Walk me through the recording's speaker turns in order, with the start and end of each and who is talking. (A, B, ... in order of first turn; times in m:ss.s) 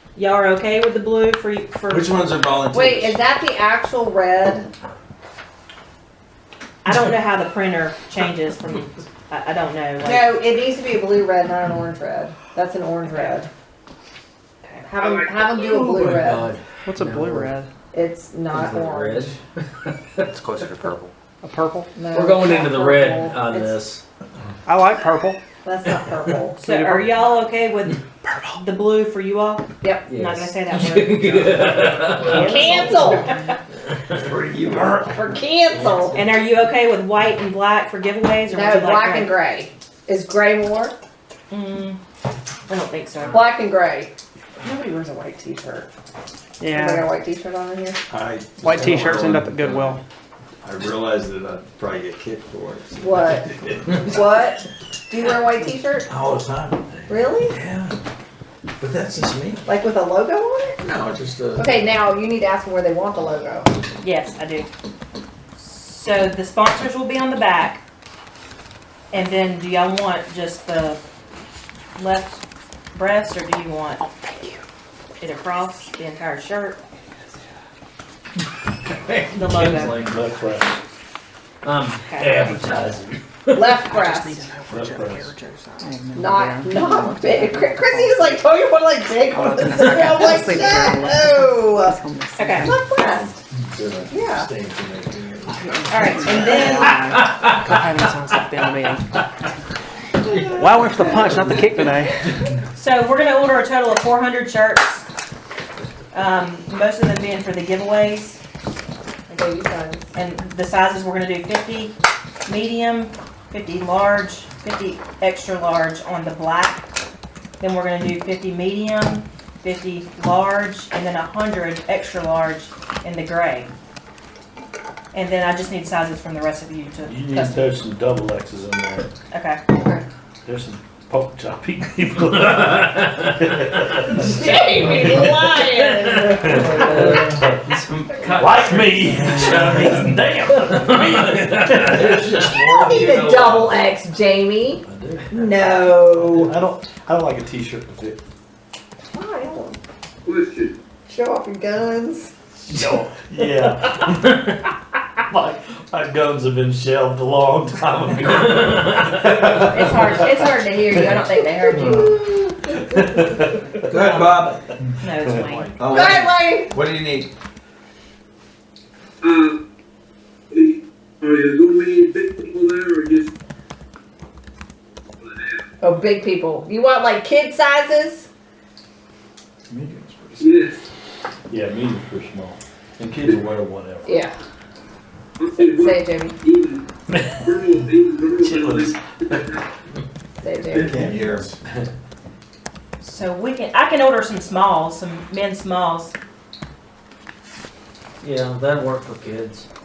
0:00.1-0:02.3 A
0:01.9-0:03.2 B
0:02.7-0:04.7 C
0:06.8-0:10.4 A
0:10.0-0:13.5 C
0:13.1-0:13.4 A
0:14.8-0:16.5 C
0:15.7-0:17.5 D
0:16.7-0:17.7 E
0:17.9-0:19.4 C
0:18.5-0:20.3 D
0:21.4-0:21.9 E
0:21.9-0:23.8 C
0:22.1-0:24.0 D
0:24.6-0:25.4 E
0:25.6-0:26.6 C
0:26.6-0:27.2 E
0:26.6-0:28.0 A
0:28.2-0:28.6 E
0:28.6-0:33.3 A
0:29.8-0:30.1 C
0:30.1-0:32.4 D
0:32.2-0:33.6 C
0:34.1-0:35.2 B
0:34.7-0:36.2 C
0:36.1-0:39.3 A
0:38.5-0:41.0 C
0:41.5-0:42.0 A
0:42.7-0:43.5 A
0:43.3-0:45.9 C
0:46.6-0:47.1 E
0:46.7-0:48.0 C
0:48.1-0:50.0 B
0:48.6-0:50.0 E
0:50.6-0:54.5 B
0:53.0-0:56.1 C
0:56.1-0:58.0 B
0:57.1-0:57.6 C
0:58.8-0:59.7 B
0:59.6-1:00.8 C
1:00.8-1:01.9 B
1:01.6-1:03.7 C
1:04.0-1:04.7 A
1:05.6-1:07.8 A
1:09.1-1:11.0 A
1:11.9-1:12.4 A
1:12.9-1:14.0 A
1:14.2-1:14.6 E
1:15.2-1:16.8 A
1:18.9-1:20.2 D
1:19.3-1:19.9 A
1:19.9-1:20.8 F
1:21.6-1:23.8 D
1:22.0-1:22.6 A
1:23.5-1:24.5 C
1:23.8-1:28.3 E
1:24.7-1:25.4 F
1:26.1-1:32.0 C
1:29.3-1:32.7 E
1:32.4-1:32.7 A
1:32.6-1:33.3 C
1:33.7-1:36.3 B
1:34.1-1:34.5 C
1:35.7-1:39.1 E
1:35.9-1:37.0 A
1:40.3-1:41.4 C
1:40.5-1:42.1 E
1:42.7-1:45.0 A
1:46.1-1:48.4 A
1:49.3-1:50.1 C
1:50.1-1:56.9 A
1:57.6-2:03.7 A
2:05.1-2:07.6 A
2:07.1-2:09.1 F
2:09.3-2:09.6 A
2:09.7-2:10.0 C
2:10.4-2:14.3 F
2:14.1-2:17.2 C
2:16.4-2:16.8 F
2:17.7-2:19.9 B
2:18.3-2:22.3 F
2:21.8-2:23.8 B
2:22.5-2:26.5 C
2:24.8-2:25.6 D
2:26.1-2:28.2 F
2:29.1-2:29.8 C
2:30.3-2:30.7 G
2:31.1-2:32.3 C
2:32.7-2:34.8 F
2:35.3-2:40.2 F
2:39.6-2:43.5 C
2:41.0-2:42.0 A
2:42.9-2:44.0 F
2:43.9-2:44.6 B
2:45.0-2:45.7 A
2:45.2-2:45.7 F
2:45.8-2:47.3 B
2:45.9-2:46.7 C
2:49.2-2:49.5 G
2:51.2-2:53.2 G
2:55.8-2:58.3 C
2:59.7-3:00.6 B
3:00.4-3:00.7 G
3:01.5-3:04.1 F
3:04.0-3:04.3 C
3:05.5-3:06.4 C
3:06.5-3:06.7 G
3:07.1-3:07.8 F
3:07.4-3:08.9 G
3:08.4-3:09.4 F
3:10.4-3:11.2 C
3:10.7-3:11.5 B
3:13.0-3:16.1 A
3:18.2-3:19.6 D